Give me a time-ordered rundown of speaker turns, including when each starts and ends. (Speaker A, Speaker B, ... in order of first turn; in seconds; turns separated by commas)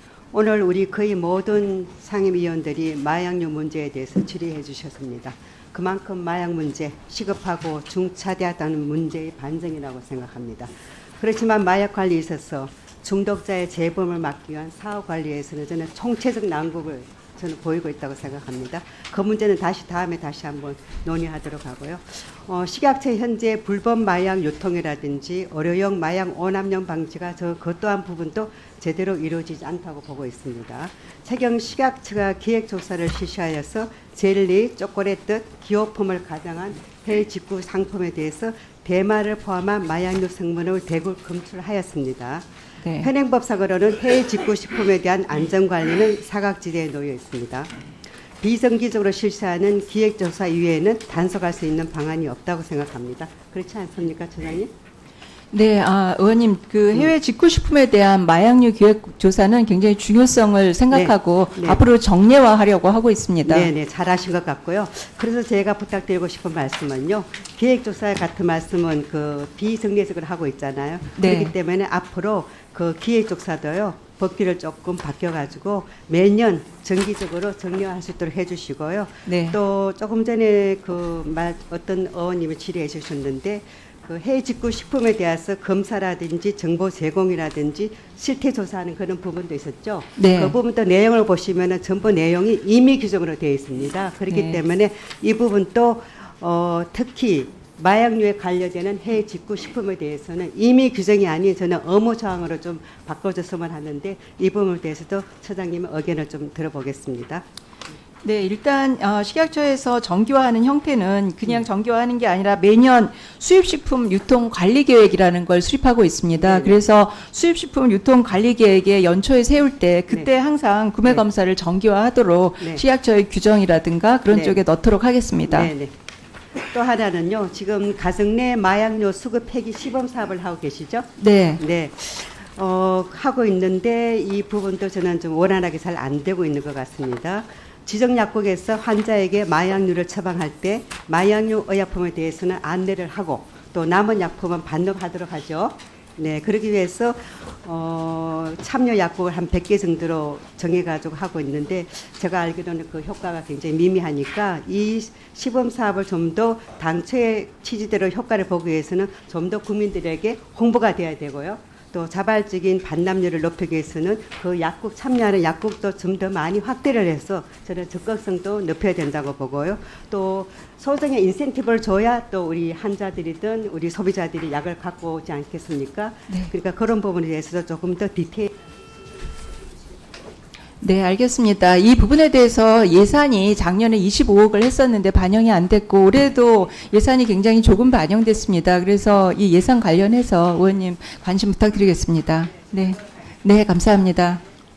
Speaker A: 0.3-42.5, Speaker B: 42.8-43.1, Speaker A: 43.0-47.7, Speaker A: 48.4-54.7, Speaker B: 55.5-63.7, Speaker A: 60.9-61.8, Speaker A: 63.4-107.4, Speaker B: 71.2-71.5, Speaker B: 79.2-79.6, Speaker B: 90.2-90.5, Speaker B: 94.3-94.6, Speaker B: 108.2-125.7, Speaker A: 116.4-116.8, Speaker A: 124.3-124.6, Speaker A: 125.5-125.9, Speaker A: 126.7-178.5, Speaker B: 131.2-131.6, Speaker B: 180.8-194.4